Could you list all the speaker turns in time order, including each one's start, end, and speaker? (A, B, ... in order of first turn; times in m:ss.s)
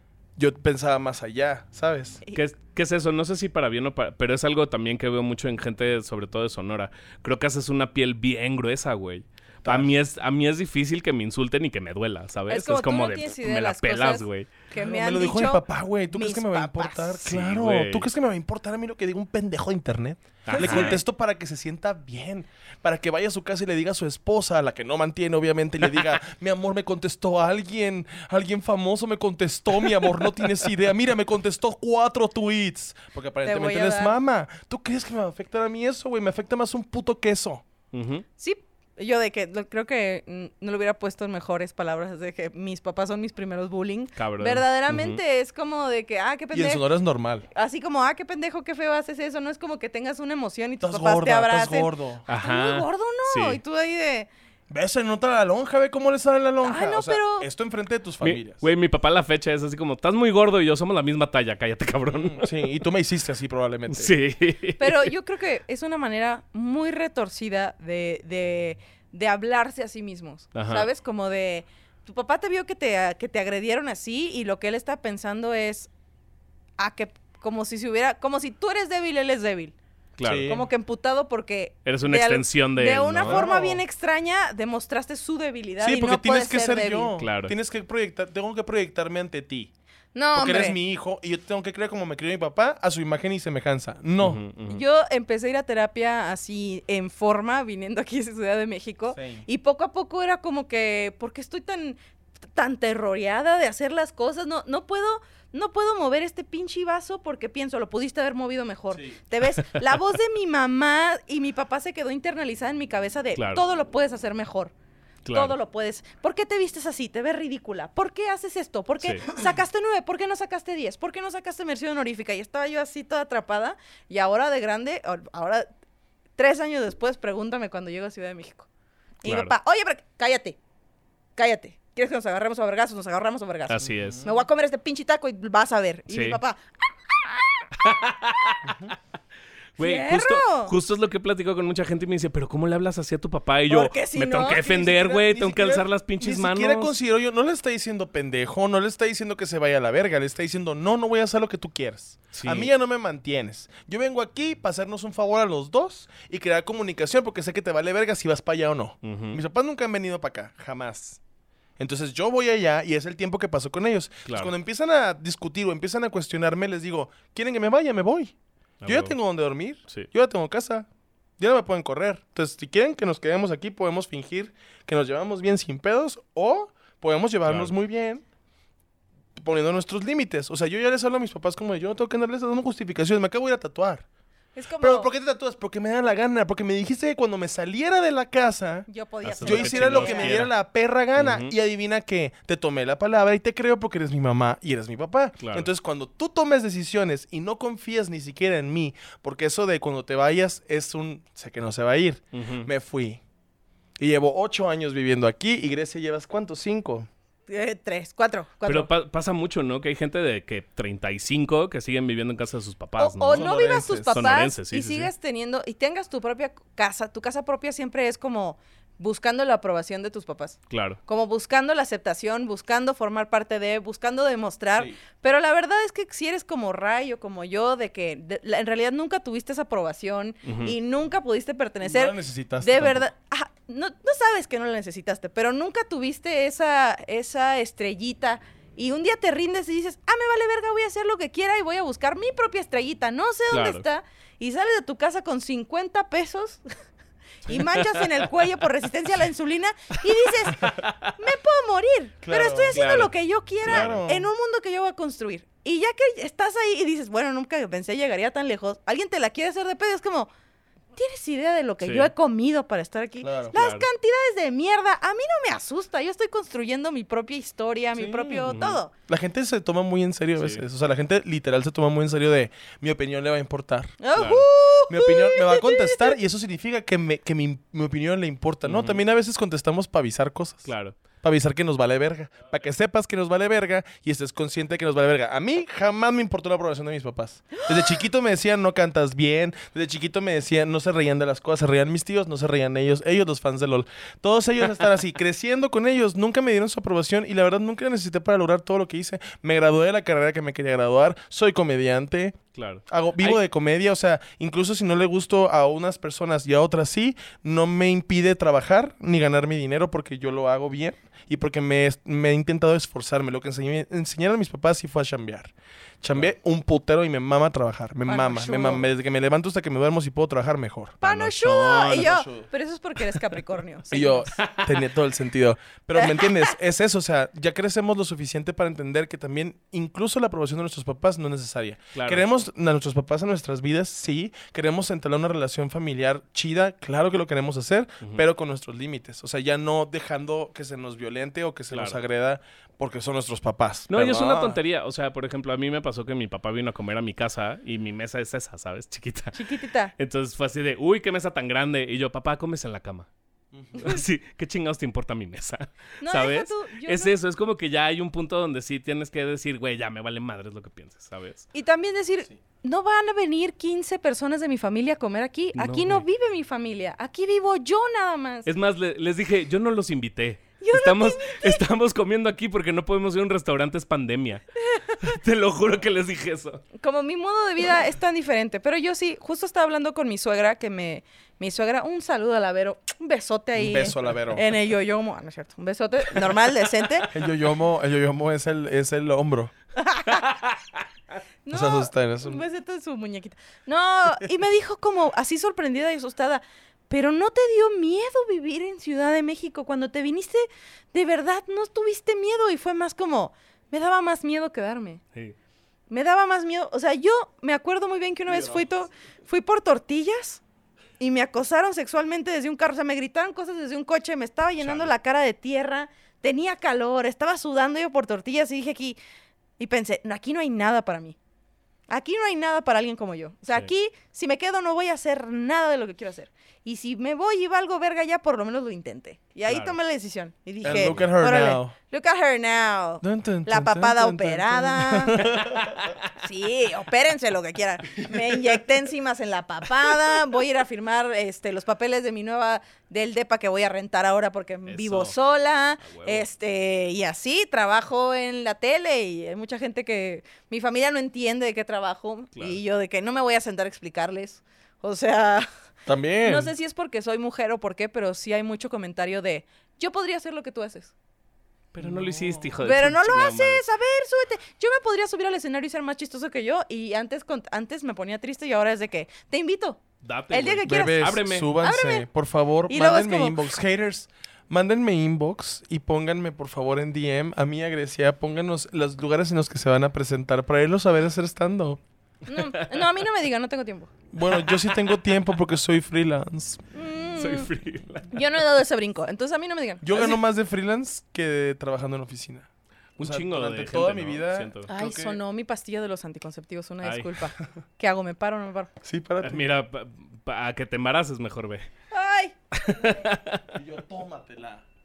0:00.4-0:02.2 A
0:02.3-0:14.5 B
0:09.6-0:09.9 A
0:12.5-0:15.6 C
0:14.7-0:37.6 A
0:16.1-0:17.2 C
0:17.2-0:18.1 B
0:20.4-0:21.0 B
0:20.5-0:21.0 C
0:33.4-0:34.2 C
0:37.9-0:38.3 B
0:38.4-0:46.8 C
0:44.2-0:45.2 B
0:46.5-0:47.5 A
0:47.5-0:54.3 C
0:50.8-0:52.2 A
0:52.3-0:53.6 B
0:54.7-0:58.6 A
0:56.6-0:57.5 C
0:58.2-1:02.7 B
1:02.1-1:04.1 A
1:03.9-1:05.1 B
1:04.8-1:15.9 C
1:10.6-1:10.9 B
1:16.8-1:19.8 C
1:20.2-1:20.5 B
1:20.2-1:20.7 A
1:20.5-1:27.1 C
1:21.9-1:23.4 B
1:23.2-1:23.8 A
1:25.8-1:29.7 A
1:27.2-1:27.5 B
1:30.2-1:30.8 C
1:30.4-1:34.4 A
1:34.2-1:34.8 B
1:34.7-1:42.0 C
1:39.1-1:39.5 A
1:42.6-1:54.7 C
1:49.6-1:49.8 B
1:53.4-1:53.6 B
1:55.3-1:55.6 B
1:55.3-2:05.7 C
1:59.0-1:59.3 B
2:06.4-2:08.7 C
2:09.2-2:10.6 C
2:09.2-2:09.6 B
2:11.4-2:17.7 C
2:13.7-2:14.2 B
2:13.9-2:14.3 A
2:16.1-2:16.4 B
2:17.7-2:18.8 B
2:18.7-2:18.9 A
2:19.8-2:26.9 B
2:19.8-2:20.7 C
2:23.7-2:24.7 C
2:24.5-2:41.2 A
2:32.3-2:32.7 B
2:39.0-2:39.4 B
2:41.8-2:48.3 A
2:44.3-2:44.5 B
2:48.8-2:49.2 B
2:48.8-2:50.9 A
2:51.4-2:58.2 A
2:57.4-2:57.7 B
2:59.4-3:04.1 A
3:04.6-3:05.1 C
3:04.8-3:08.9 A
3:08.9-3:10.5 C
3:09.2-3:10.5 B
3:09.4-3:23.2 A
3:11.2-3:11.5 B
3:15.4-3:15.7 B
3:22.3-3:22.7 B
3:24.0-3:27.1 A
3:27.5-3:28.9 C
3:28.7-3:33.5 B
3:33.0-4:06.6 C
3:33.3-3:34.3 A
3:34.1-3:35.1 B
3:40.7-3:41.0 B
3:50.4-3:50.8 B
3:51.8-3:53.0 A
4:03.5-4:03.8 B
4:07.4-4:20.3 C
4:07.5-4:08.3 B
4:10.5-4:11.2 B
4:12.2-4:12.8 A
4:12.7-4:14.0 B
4:13.6-4:14.3 A
4:21.0-4:28.9 C
4:21.8-4:22.1 B
4:23.2-4:23.6 A
4:23.5-4:23.9 B
4:28.0-4:28.5 A
4:28.5-4:28.8 B
4:29.1-4:34.0 A
4:30.4-4:30.6 B
4:34.0-4:36.2 C
4:34.2-4:34.5 B
4:34.9-4:40.7 A
4:38.6-4:39.0 B
4:40.6-4:41.0 B
4:41.2-5:21.1 A
5:02.5-5:03.4 B
5:18.1-5:18.9 C
5:21.0-5:24.2 C
5:21.0-5:22.1 B
5:21.7-5:22.5 A
5:23.2-5:23.4 B
5:23.9-5:44.6 A
5:24.3-5:24.8 B
5:26.0-5:26.5 C
5:31.9-5:32.3 B
5:41.7-5:42.0 B
5:43.9-5:49.4 B
5:49.4-5:49.9 C
5:50.0-5:53.1 B
5:53.5-5:53.9 A
5:53.8-6:01.5 B
5:56.0-5:57.1 C
6:01.5-6:08.5 C
6:05.6-6:06.0 B
6:08.4-6:14.4 B
6:10.6-6:11.6 C
6:14.7-6:15.1 C
6:15.0-6:16.6 B
6:16.8-6:27.1 C
6:23.6-6:24.4 A
6:27.1-6:29.5 A
6:29.8-6:30.4 C
6:31.4-6:45.0 C
6:31.5-6:32.4 A
6:45.9-6:50.4 C
6:48.3-6:48.6 A
6:51.0-6:59.0 C
6:54.6-6:54.9 B
6:59.6-7:01.2 C
7:01.9-7:15.2 C
7:09.5-7:09.8 B
7:10.6-7:11.1 B
7:10.6-7:11.7 A
7:13.0-7:15.7 A
7:15.2-7:16.0 B
7:16.1-7:35.5 C
7:18.0-7:18.5 A
7:24.7-7:25.2 B
7:25.8-7:26.3 B
7:32.4-7:32.6 B
7:35.9-7:36.5 A
7:36.2-7:40.9 C
7:41.7-7:43.6 B
7:41.8-7:42.5 A
7:42.6-7:52.1 C
7:50.0-7:51.6 B
7:50.6-8:01.8 A
7:52.7-7:53.4 C
8:02.3-8:03.9 C
8:02.3-8:02.9 B
8:04.1-8:06.6 A
8:04.2-8:05.0 B
8:06.7-8:07.5 C
8:07.2-8:08.2 B
8:08.1-8:10.2 C
8:09.8-8:15.2 A
8:13.0-8:14.7 B
8:14.7-8:18.7 C
8:16.8-8:17.1 B
8:18.8-8:19.5 A
8:19.2-8:21.7 B
8:21.9-8:22.4 C
8:22.5-8:23.5 B
8:23.5-8:24.6 A